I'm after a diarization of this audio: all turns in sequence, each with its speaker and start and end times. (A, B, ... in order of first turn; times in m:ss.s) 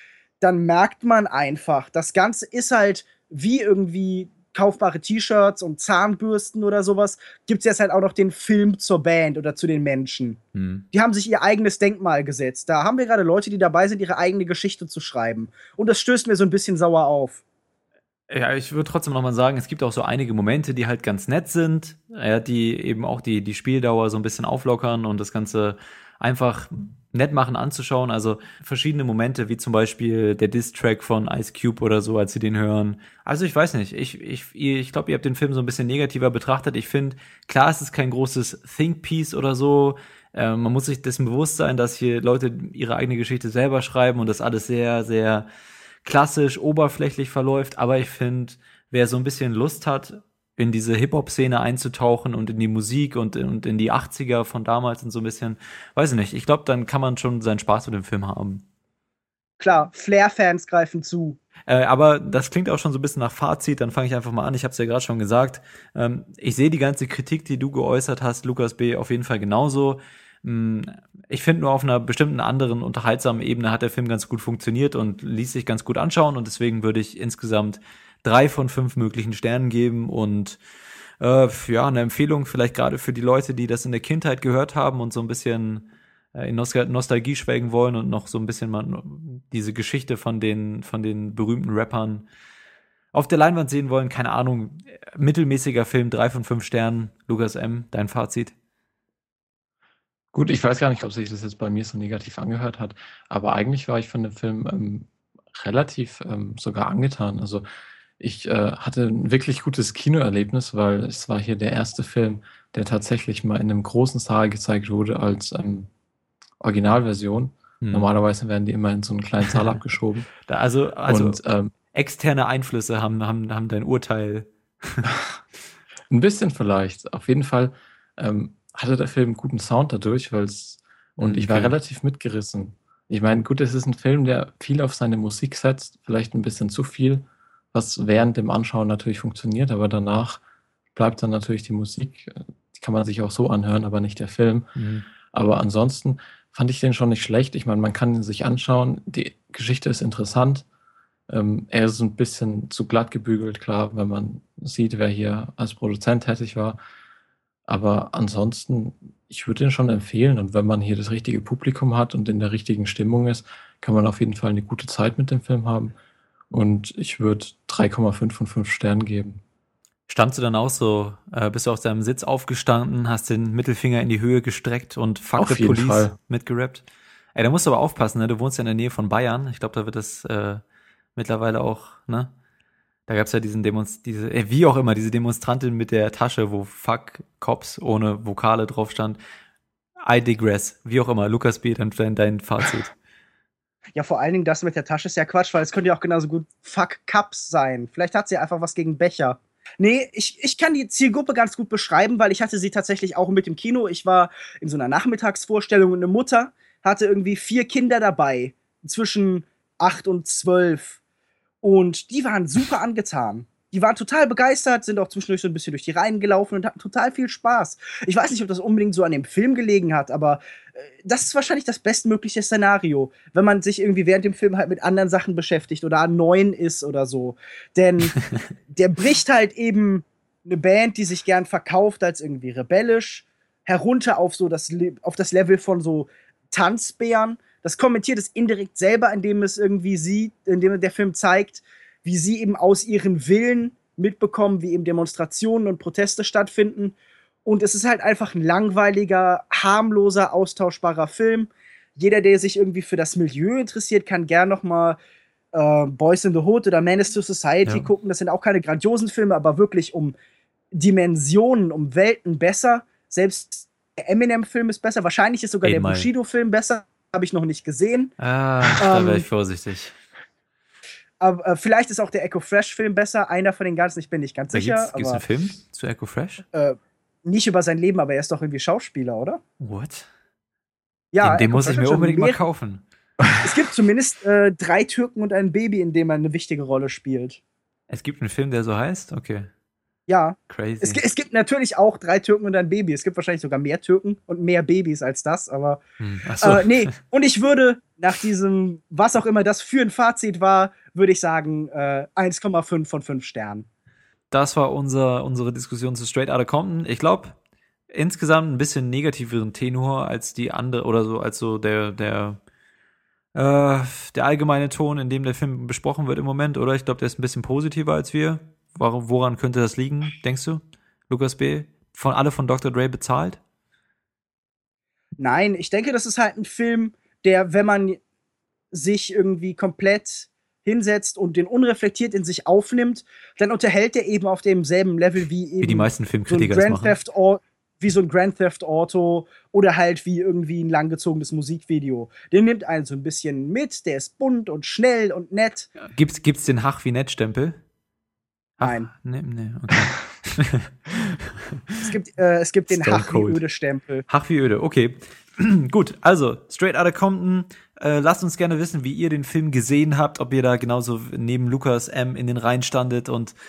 0:00.4-0:10.4 A
0:10.5-0:10.8 B
0:10.9-0:17.4 A
0:18.3-0:45.4 B
0:46.0-0:58.6 B
0:59.6-1:01.4 A
1:01.7-1:20.6 B
1:21.2-1:32.2 B
1:33.1-1:38.5 B
1:40.3-1:47.6 C
1:48.2-1:55.9 C
1:56.6-2:00.3 C
1:57.8-1:58.1 B
2:00.5-2:01.4 B
2:01.1-2:01.7 C
2:01.9-2:05.0 B
2:05.0-2:05.4 C
2:06.1-2:20.4 C
2:11.2-2:11.7 B
2:20.9-2:24.7 C
2:24.7-2:25.0 B
2:25.3-2:30.6 C
2:31.3-2:36.8 C
2:37.7-2:45.9 C
2:46.5-2:49.4 C
2:50.1-2:56.8 B
2:55.4-2:56.1 C
2:57.3-3:00.6 B
3:01.2-3:02.3 B
3:03.1-3:09.2 B
3:10.0-3:12.9 B
3:13.9-3:31.0 A
3:31.6-3:48.2 A
3:48.7-4:15.0 A
4:15.5-4:20.2 A
4:20.7-4:28.1 A
4:25.6-4:26.1 B
4:28.2-4:29.9 B
4:28.7-4:29.2 A
4:31.2-4:35.2 A
4:34.5-4:36.4 B
4:36.5-4:39.4 A
4:39.6-4:40.1 B
4:41.1-4:42.4 A
4:41.2-4:42.8 B
4:43.4-4:47.4 A
4:47.9-4:49.5 B
4:50.1-4:55.8 A
4:50.5-4:51.0 B
4:56.0-4:56.9 B
4:56.4-5:03.6 A
5:04.3-5:07.4 B
5:07.9-5:12.4 B
5:13.3-5:23.4 B
5:25.2-5:28.0 A
5:28.7-5:45.7 A
5:35.6-5:37.0 B
5:45.8-5:47.6 B
5:48.6-5:51.1 B
5:48.6-5:48.9 A
5:51.8-5:54.0 A
5:52.7-5:53.4 B
5:54.1-6:03.3 B